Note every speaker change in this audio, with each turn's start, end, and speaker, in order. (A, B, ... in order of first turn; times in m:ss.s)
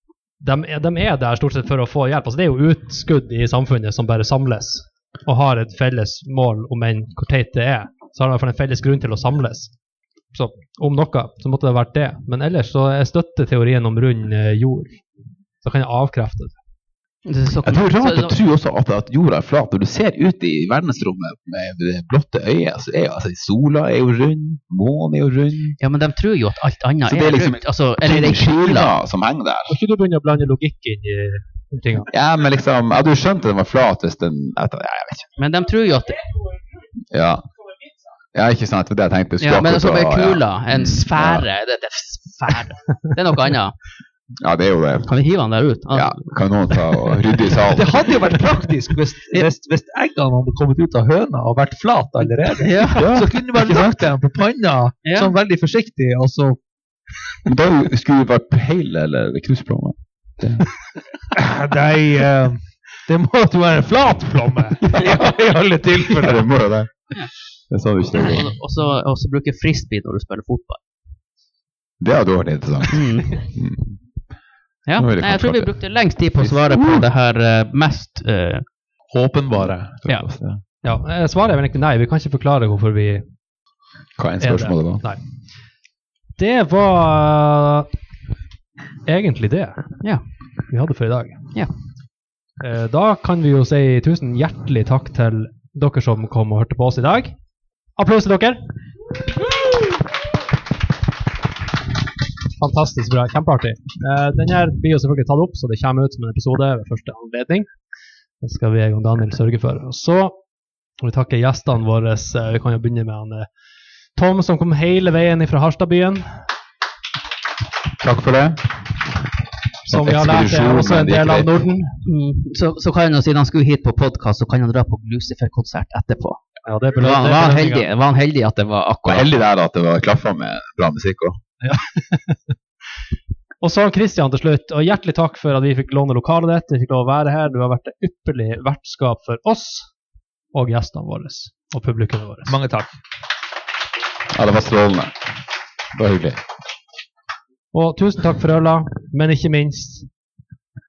0:00.4-0:09.7 A
0:10.3-0:15.1 A
0:15.6-0:16.5 A
0:17.2-0:18.3 B
0:17.6-0:25.8 C
0:25.8-0:28.9 B
0:27.0-0:29.7 C
0:29.7-0:32.1 A
0:32.1-0:35.3 C
0:35.4-0:36.3 B
0:37.0-0:37.4 C
0:38.3-0:41.5 C
0:39.4-0:43.8 B
0:44.4-0:45.1 C
0:45.0-0:46.3 B
0:45.9-0:48.1 C
0:47.7-0:56.6 D
0:52.6-0:53.1 B
0:53.0-0:54.1 C
0:55.0-0:55.3 B
0:57.4-1:00.7 C
1:01.3-1:06.4 D
1:04.9-1:05.3 C
1:06.0-1:08.5 C
1:08.2-1:10.8 B
1:12.0-1:14.0 C
1:12.9-1:13.4 B
1:14.8-1:18.6 B
1:15.0-1:17.1 C
1:19.1-1:20.0 D
1:19.6-1:20.6 C
1:20.8-1:23.3 A
1:24.2-1:25.0 C
1:24.4-1:25.2 A
1:26.4-1:27.9 A
1:29.0-1:30.0 A
1:30.7-1:31.5 A
1:32.6-1:37.4 A
1:38.0-1:38.6 A
1:42.6-1:47.7 A
1:48.4-1:50.4 A
1:51.0-1:53.5 A
1:54.1-1:56.5 A
1:58.0-1:58.7 C
1:59.8-2:02.0 A
1:59.9-2:01.5 C
2:02.0-2:06.4 B
2:06.6-2:07.9 A
2:07.0-2:09.3 B
2:09.0-2:11.4 C
2:11.6-2:12.5 A
2:13.6-2:19.9 A
2:20.5-2:22.5 A
2:22.5-2:22.9 D
2:24.3-2:25.1 C
2:25.9-2:26.4 C
2:27.7-2:30.1 A